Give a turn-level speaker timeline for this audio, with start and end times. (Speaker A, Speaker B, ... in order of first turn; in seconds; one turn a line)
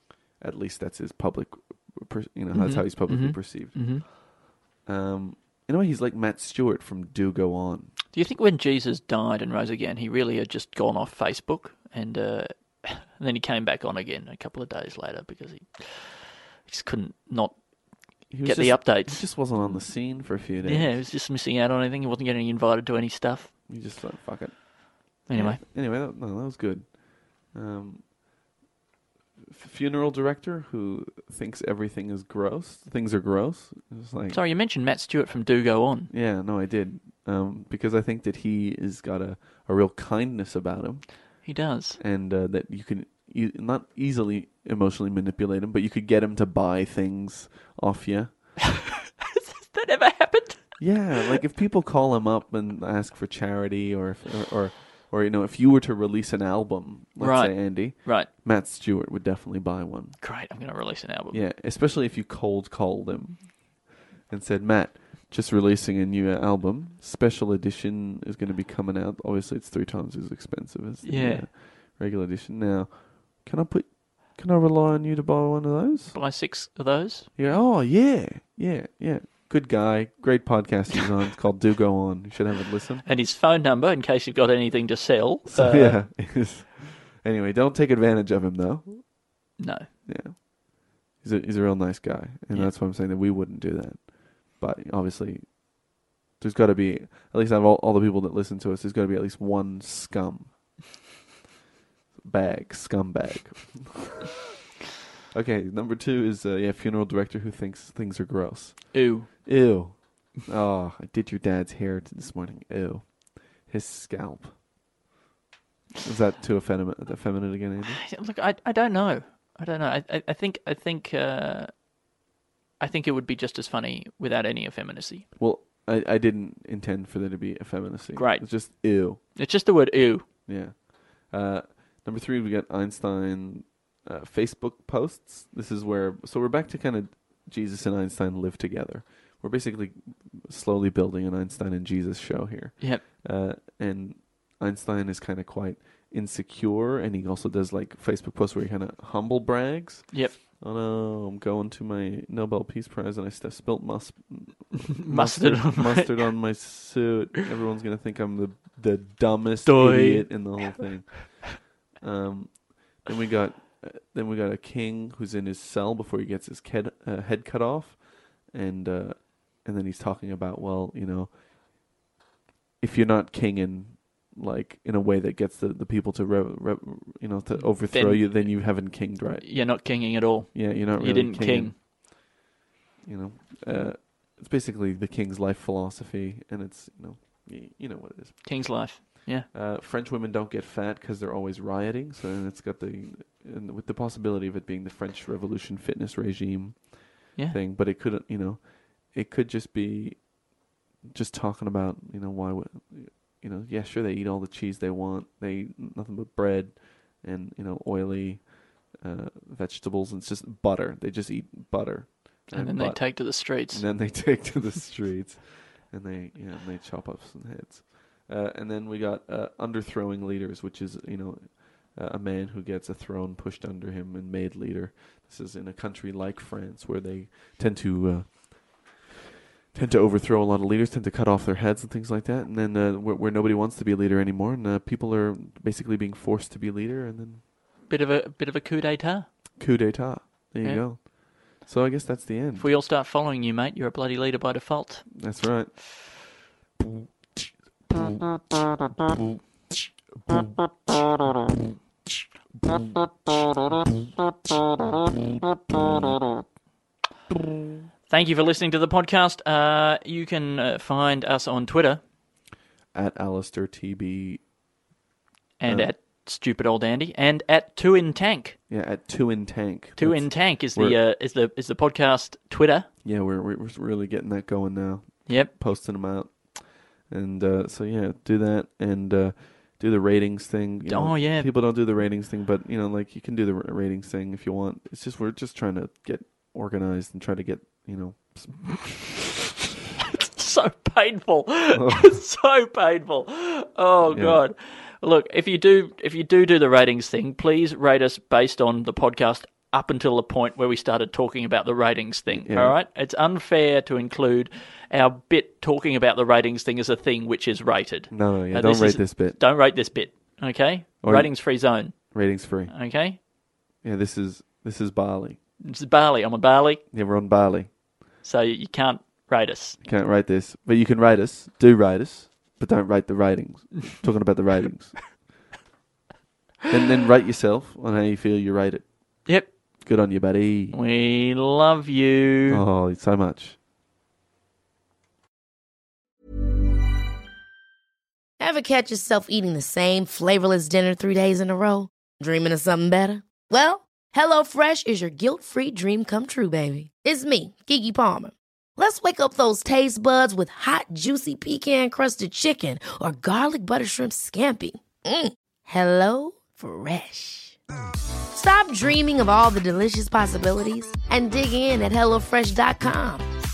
Speaker A: 0.4-4.1
Speaker B: 2.5-4.0
Speaker A: 4.8-7.9
Speaker B: 8.1-17.6
Speaker B: 18.3-23.5
Speaker A: 18.3-21.0
Speaker A: 23.7-28.1
Speaker B: 25.3-25.6
Speaker A: 29.5-34.4
Speaker B: 34.3-36.1
Speaker A: 36.1-41.5
Speaker B: 41.4-42.0
Speaker A: 42.0-48.6
Speaker B: 49.4-51.4
Speaker A: 50.8-60.2
Speaker B: 57.2-58.3
Speaker B: 60.2-61.5
Speaker A: 61.3-76.2
Speaker B: 71.0-71.5
Speaker B: 76.1-77.6
Speaker A: 77.4-83.1
Speaker B: 83.0-86.0
Speaker A: 85.5-89.2
Speaker B: 89.6-89.9
Speaker A: 90.0-100.6
Speaker A: 102.2-104.3
Speaker A: 105.3-114.6
Speaker B: 108.9-109.6
Speaker A: 116.0-118.0
Speaker B: 117.9-121.8
Speaker B: 122.8-125.3
Speaker A: 125.4-129.2
Speaker B: 128.2-130.3
Speaker A: 130.5-171.4
Speaker B: 150.1-150.4
Speaker B: 155.0-156.3
Speaker B: 159.7-160.8
Speaker A: 172.8-181.8
Speaker B: 177.5-181.8
Speaker A: 183.0-200.3
Speaker B: 188.4-189.5
Speaker A: 201.1-229.1
Speaker B: 212.5-213.9
Speaker A: 229.7-237.4
Speaker B: 237.9-239.3
Speaker A: 239.6-242.7
Speaker B: 240.6-240.9
Speaker B: 242.6-245.1
Speaker A: 245.1-246.3
Speaker A: 247.9-248.2
Speaker A: 249.1-249.4
Speaker A: 250.2-250.6
Speaker A: 252.6-252.9
Speaker A: 255.7-256.1
Speaker B: 258.1-262.0
Speaker A: 262.9-264.4
Speaker B: 265.6-268.6
Speaker A: 265.7-265.9
Speaker A: 268.7-271.0
Speaker B: 270.0-272.9
Speaker A: 273.0-289.4
Speaker B: 275.3-275.5
Speaker B: 280.9-281.5
Speaker B: 290.3-313.2
Speaker A: 291.7-292.1
Speaker A: 294.1-294.4
Speaker A: 302.3-302.8
Speaker A: 308.1-309.4
Speaker A: 311.0-312.8
Speaker A: 313.8-315.4
Speaker B: 315.6-316.8
Speaker A: 316.9-317.7
Speaker B: 318.2-319.8
Speaker A: 319.8-325.2
Speaker A: 326.7-329.2
Speaker B: 329.3-329.5
Speaker A: 329.8-330.8
Speaker B: 330.7-332.6
Speaker A: 332.5-333.6
Speaker C: 338.4-357.6
Speaker C: 358.3-363.3